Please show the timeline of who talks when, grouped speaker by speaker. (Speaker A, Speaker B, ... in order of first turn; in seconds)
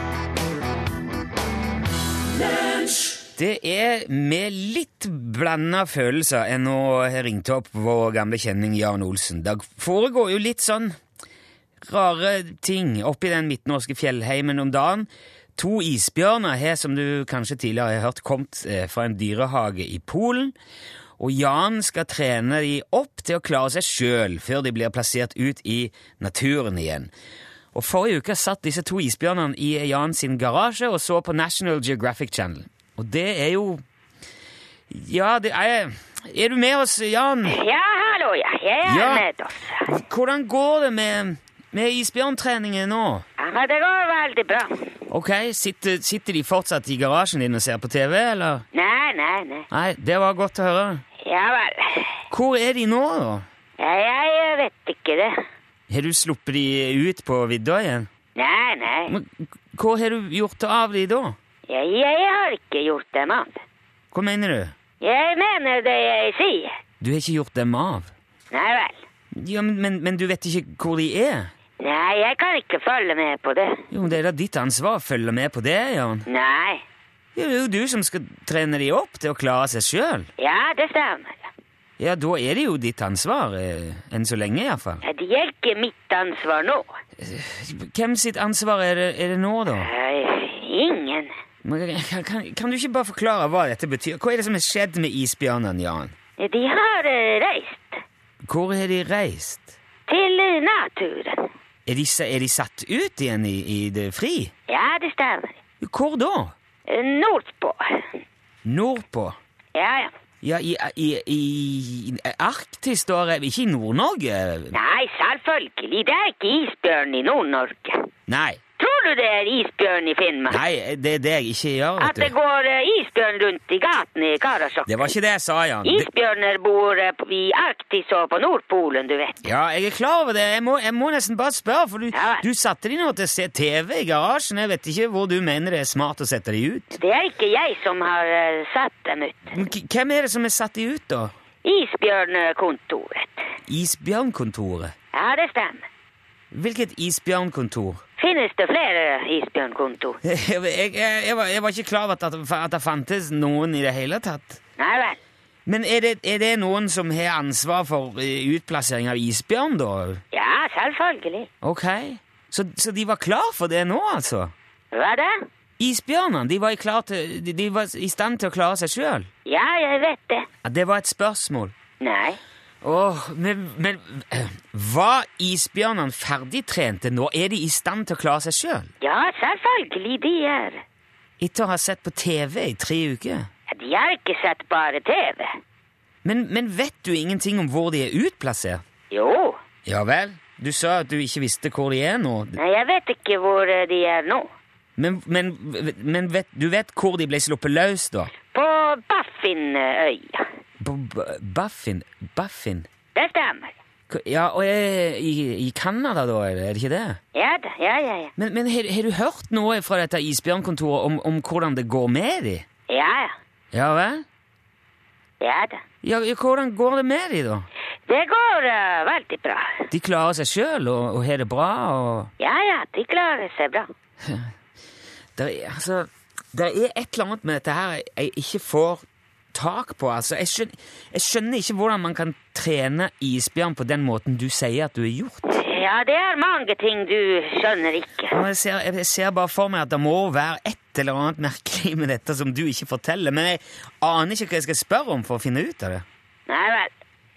Speaker A: 3.4-11.0, 11.8-20.6, 21.2-27.1, 27.7-33.8, 34.9-37.6, 38.9-39.2, 39.9-43.3, 45.1-48.7, 49.7-51.0, 52.3-53.5, 55.9-58.1, 59.1-61.4, 64.1-64.8, 67.0-68.1, 69.3-71.5, 73.9-76.3, 77.4-80.3, 82.0-85.0, 87.2-89.9, 91.6-96.2, 98.4-99.8, 101.9-104.5, 105.8-106.5, 108.7-109.4, 110.4-114.8, 118.3-118.6, 120.5-122.3, 124.9-126.1, 129.4-137.0, 139.5-141.3, 143.7-144.9, 146.5-148.0, 150.2-154.6, 155.7-160.2, 161.6-164.5, 165.8-169.3, 170.6-171.7, 172.8-178.9, 181.4-183.5, 186.2-188.8, 189.8-192.6, 195.0-198.3, 200.8-202.9, 204.1-207.2, 208.4-212.7, 213.7-214.2, 216.0-217.7, 219.9-222.3, 224.2-224.5, 225.4-235.6, 238.3-246.1
Speaker B: 37.5-39.9, 43.4-44.9, 48.7-49.7, 51.2-52.2, 53.8-55.4, 58.4-59.1, 61.7-63.6, 65.0-66.8, 68.5-69.0, 71.8-73.8, 76.3-76.8, 80.4-81.5, 85.0-86.9, 89.8-91.3, 96.4-98.0, 100.1-101.5, 104.7-105.5, 106.9-108.2, 109.8-110.1, 114.7-118.1, 118.8-120.6, 122.0-125.1, 125.8-129.4, 132.1-132.4, 137.0-139.6, 141.7-143.4, 145.1-145.9, 148.2-150.2, 154.8-155.2, 160.3-161.5, 164.9-165.4, 169.5-170.5, 172.0-172.4, 179.0-180.8, 183.7-185.5, 189.1-189.6, 192.6-194.5, 198.5-200.5, 203.2-203.7, 207.3-208.3, 212.9-213.3, 215.4-215.8, 218.1-219.9, 222.4-223.9, 235.5-238.4, 246.5-246.9